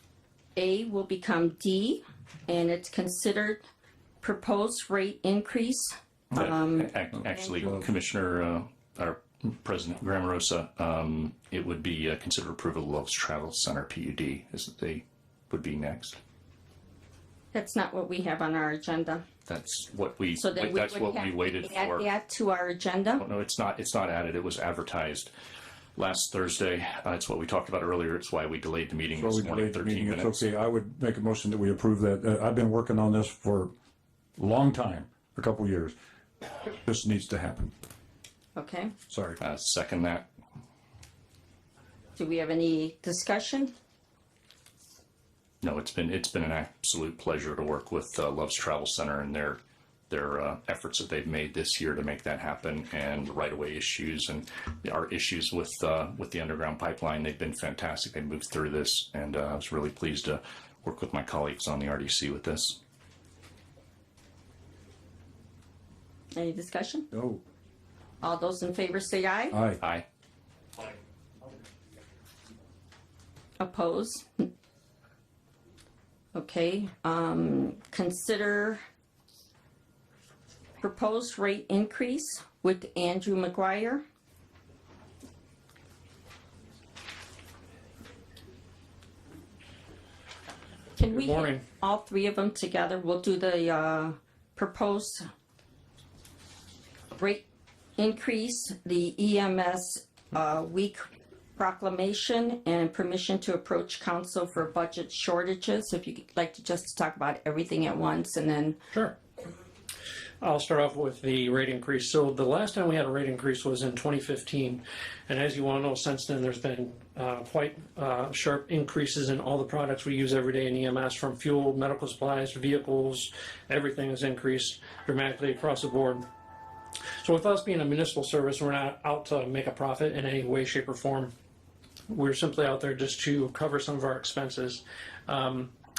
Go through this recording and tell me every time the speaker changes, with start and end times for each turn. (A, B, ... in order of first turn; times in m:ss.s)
0:00.6-0:03.6 A
0:04.2-0:06.9 A
0:06.3-0:16.2 B
0:17.5-0:19.2 A
0:19.5-0:22.0 B
0:20.4-0:23.2 A
0:23.2-0:25.3 B
0:26.0-0:30.4 B
0:29.1-0:33.7 C
0:34.4-0:35.9 C
0:36.7-0:37.7 C
0:38.6-0:39.0 A
0:39.1-0:39.4 C
0:39.4-0:40.2 B
0:42.2-0:43.7 A
0:45.6-0:49.6 B
0:50.1-1:02.8 B
1:06.3-1:07.1 A
1:07.1-1:07.4 C
1:08.2-1:09.6 A
1:09.5-1:09.8 C
1:09.8-1:10.0 B
1:13.6-1:14.4 A
1:16.3-1:18.8 A
1:20.8-1:24.0 A
1:31.0-1:35.2 A
1:31.1-1:31.6 D
1:37.2-1:37.4 A
1:38.0-1:48.8 A
1:50.4-2:06.2 D
2:07.2-2:11.3 D
2:12.1-2:15.7 D